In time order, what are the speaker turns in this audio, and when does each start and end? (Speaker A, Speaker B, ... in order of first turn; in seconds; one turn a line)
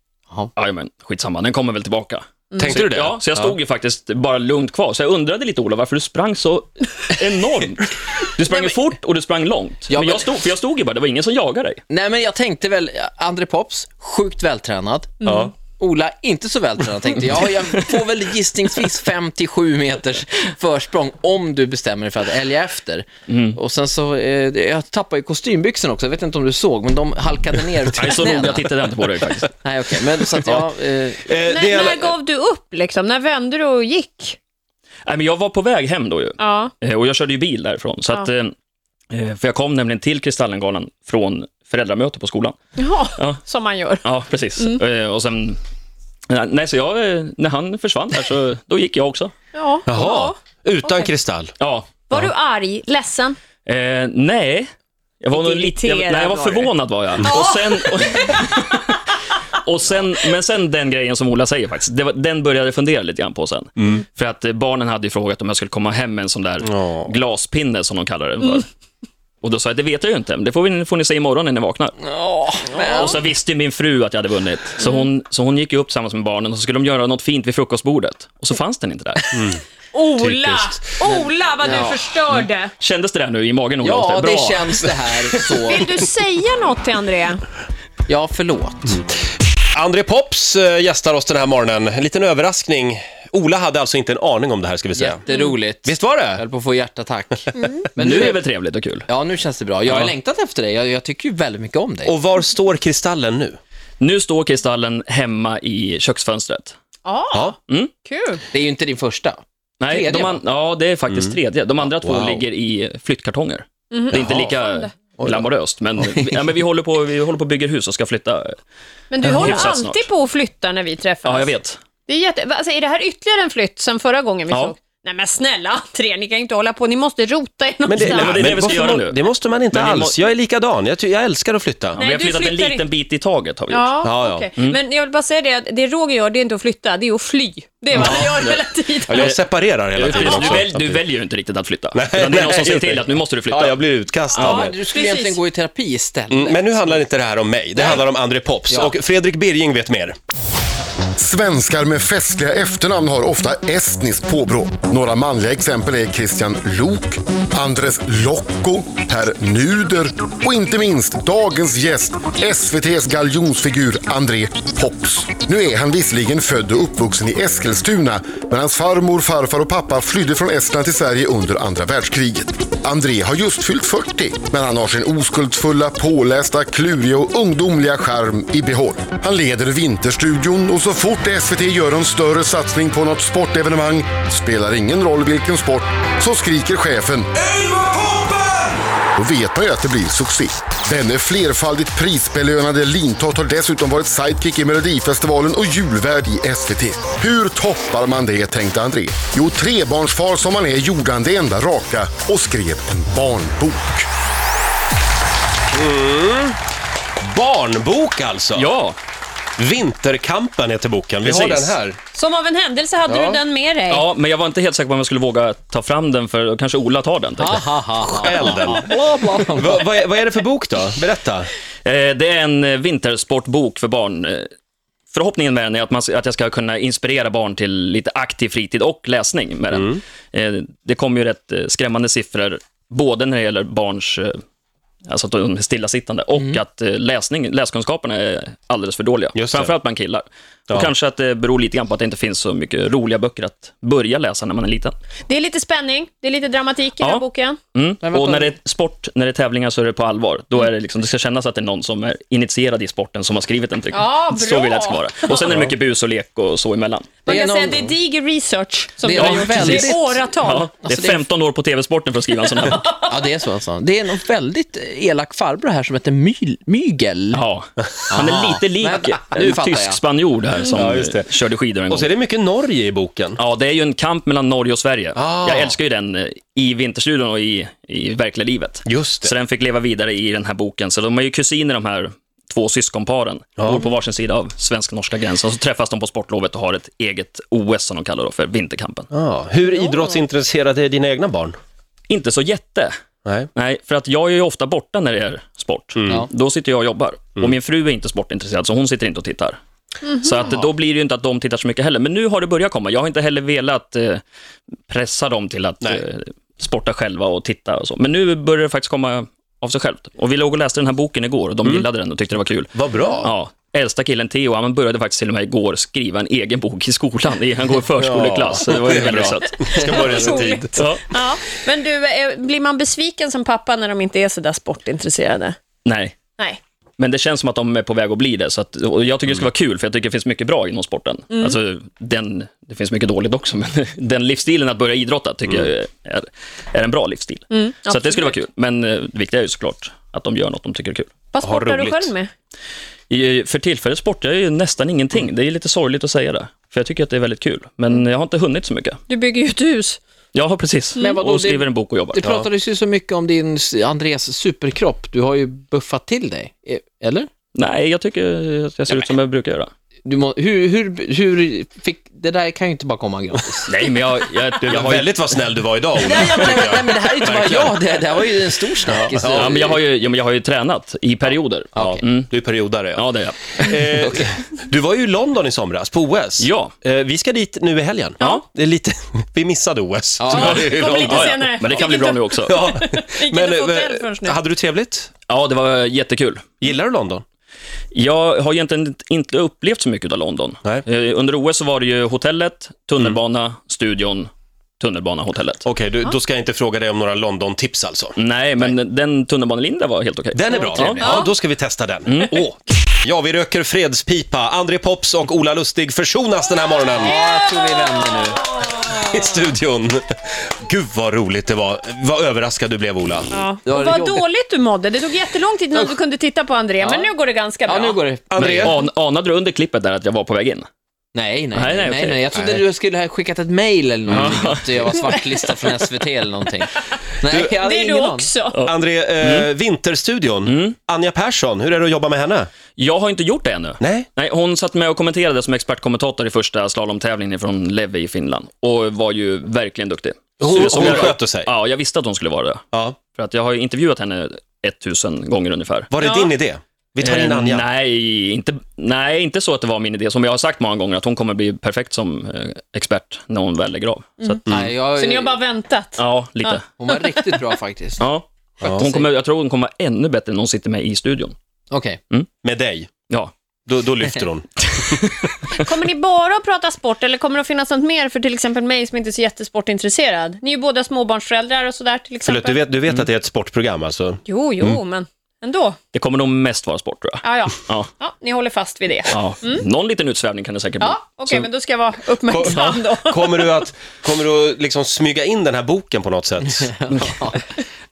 Speaker A: 0.6-11.8
Speaker B: 2.5-2.8
Speaker C: 2.6-3.6
Speaker D: 9.9-10.5
Speaker D: 11.9-28.7
Speaker B: 15.2-15.5
Speaker C: 15.2-15.5
Speaker A: 23.3-23.6
Speaker A: 28.0-29.5
Speaker D: 29.6-31.3
Speaker C: 31.3-32.1
Speaker B: 31.4-34.4
Speaker A: 35.1-38.5
Speaker B: 36.4-36.7
Speaker A: 39.1-42.5
Speaker B: 42.8-44.0
Speaker A: 44.0-45.6
Speaker A: 46.3-49.3
Speaker B: 49.5-51.1
Speaker C: 49.9-51.5
Speaker A: 51.6-52.2
Speaker B: 52.1-53.4
Speaker A: 53.6-59.0
Speaker B: 55.3-58.5
Speaker A: 59.6-68.7
Speaker C: 63.8-64.0
Speaker C: 66.6-67.2
Speaker A: 69.4-72.0
Speaker D: 72.0-73.2
Speaker B: 72.8-73.1
Speaker A: 72.9-79.4
Speaker B: 74.8-75.1
Speaker C: 79.3-79.6
Speaker B: 79.9-82.7
Speaker C: 80.2-80.8
Speaker D: 81.0-82.0
Speaker A: 82.8-85.7
Speaker D: 83.8-85.9
Speaker B: 85.7-87.4
Speaker D: 88.1-89.0
Speaker C: 89.7-95.2
Speaker D: 95.0-98.4
Speaker B: 95.3-95.5
Speaker C: 95.8-96.4
Speaker B: 97.5-97.9
Speaker A: 98.0-99.1
Speaker D: 99.1-102.1
Speaker A: 99.9-100.1
Speaker C: 102.1-103.6
Speaker A: 104.0-106.8
Speaker B: 107.1-108.4
Speaker D: 108.5-110.4
Speaker A: 109.8-118.5
Speaker C: 111.1-112.5
Speaker B: 113.9-114.9
Speaker C: 114.1-114.5
Speaker B: 119.1-121.5
Speaker A: 119.2-120.0
Speaker A: 121.2-121.8
Speaker B: 122.1-128.8
Speaker C: 127.9-132.0
Speaker A: 128.0-129.2
Speaker A: 129.7-130.2
Speaker A: 132.0-134.0
Speaker B: 132.0-132.9
Speaker B: 133.7-139.3
Speaker C: 134.0-134.5
Speaker A: 137.9-143.8
Speaker C: 138.0-138.2
Speaker C: 139.1-141.0
Speaker B: 140.1-140.7
Speaker C: 141.9-144.8
Speaker B: 144.3-145.4
Speaker D: 144.4-146.8
Speaker C: 146.3-150.2
Speaker B: 147.8-148.0
Speaker D: 148.7-149.0
Speaker E: 151.2-187.3
Speaker C: 187.4-188.7
Speaker E: 189.2-204.1
Speaker C: 205.7-206.6
Speaker C: 207.2-208.7
Speaker A: 208.6-209.0
Speaker C: 209.6-212.0
Speaker A: 211.2-211.8
Speaker B: 212.1-214.1
Speaker C: 213.1-213.4
Speaker A: 213.9-217.7
Speaker D: 217.4-219.8
Speaker C: 218.2-218.9
Speaker C: 219.6-221.5
Speaker A: 221.8-224.5
Speaker A: 225.1-234.4
Speaker C: 229.7-230.0
Speaker A: 235.1-245.0
Speaker C: 239.3-239.8
Speaker B: 245.3-247.6
Speaker A: 247.0-257.2
Speaker D: 248.0-248.5
Speaker B: 253.9-255.4
Speaker B: 257.2-260.7
Speaker D: 257.3-257.9
Speaker D: 259.1-260.2
Speaker A: 259.1-262.9
Speaker D: 260.8-261.2
Speaker B: 262.7-263.0
Speaker D: 263.0-267.4
Speaker A: 267.3-272.1
Speaker D: 268.1-270.0
Speaker C: 270.7-271.3
Speaker C: 271.9-273.4
Speaker A: 273.4-289.1
Speaker C: 275.2-275.8
Speaker C: 278.9-279.3
Speaker C: 283.6-283.8
Speaker C: 289.1-291.6
Speaker B: 289.6-290.2
Speaker A: 292.1-292.9
Speaker A: 293.6-299.6
Speaker B: 300.1-300.5
Speaker A: 300.1-304.2
Speaker A: 304.9-321.1
Speaker C: 312.7-313.3
Speaker C: 318.0-320.8
Speaker B: 319.6-325.6
Speaker A: 325.9-326.2
Speaker A: 327.0-341.1
Speaker B: 331.3-331.6
Speaker B: 337.5-338.4
Speaker B: 341.3-342.3
Speaker C: 341.4-342.1
Speaker A: 343.1-349.0
Speaker B: 349.1-350.0
Speaker A: 350.3-352.3
Speaker D: 351.0-357.3
Speaker A: 357.6-359.7
Speaker D: 360.1-363.7
Speaker A: 363.7-365.3
Speaker C: 364.6-367.8
Speaker D: 366.0-369.7
Speaker C: 368.9-369.8
Speaker A: 369.2-372.3
Speaker D: 371.8-372.0
Speaker C: 371.8-373.1
Speaker A: 372.9-373.8
Speaker C: 373.6-381.9
Speaker D: 374.0-374.3
Speaker A: 376.4-376.7
Speaker D: 380.2-380.8
Speaker B: 380.3-384.4
Speaker A: 380.4-382.7
Speaker C: 382.5-385.1
Speaker A: 385.3-386.5
Speaker C: 386.6-387.2
Speaker A: 387.9-395.6
Speaker C: 395.6-398.7
Speaker A: 398.2-401.1
Speaker C: 400.3-407.2
Speaker D: 400.6-401.2
Speaker B: 401.0-401.3
Speaker A: 402.1-402.4
Speaker D: 407.0-408.6
Speaker B: 407.1-408.9
Speaker C: 408.6-413.3
Speaker B: 413.3-418.0
Speaker D: 413.6-414.2
Speaker D: 416.8-417.1
Speaker D: 417.6-418.8
Speaker C: 418.3-418.8
Speaker A: 418.5-420.7
Speaker D: 421.1-428.3
Speaker A: 421.5-422.4
Speaker C: 424.1-424.5
Speaker A: 424.1-424.8
Speaker B: 425.0-425.7
Speaker B: 427.5-428.6
Speaker A: 428.5-429.5
Speaker C: 428.6-432.5
Speaker A: 430.5-430.8
Speaker A: 432.8-445.9
Speaker C: 433.8-434.1
Speaker C: 440.4-441.5
Speaker C: 442.7-443.0
Speaker C: 445.9-447.6
Speaker B: 446.0-446.3
Speaker A: 447.0-454.4
Speaker B: 454.2-457.3
Speaker D: 454.5-455.4
Speaker A: 456.0-456.6
Speaker D: 456.8-458.0
Speaker A: 458.0-461.3
Speaker C: 458.6-458.9
Speaker D: 458.6-459.0
Speaker D: 461.7-462.0
Speaker C: 462.4-462.9
Speaker C: 463.7-465.2
Speaker A: 464.7-465.1
Speaker B: 465.5-472.6
Speaker C: 472.2-474.8
Speaker B: 474.2-475.8
Speaker A: 475.9-477.9
Speaker B: 477.2-479.6
Speaker A: 479.1-481.5
Speaker B: 480.8-483.6
Speaker C: 482.3-486.7
Speaker D: 486.7-487.4
Speaker A: 486.9-487.4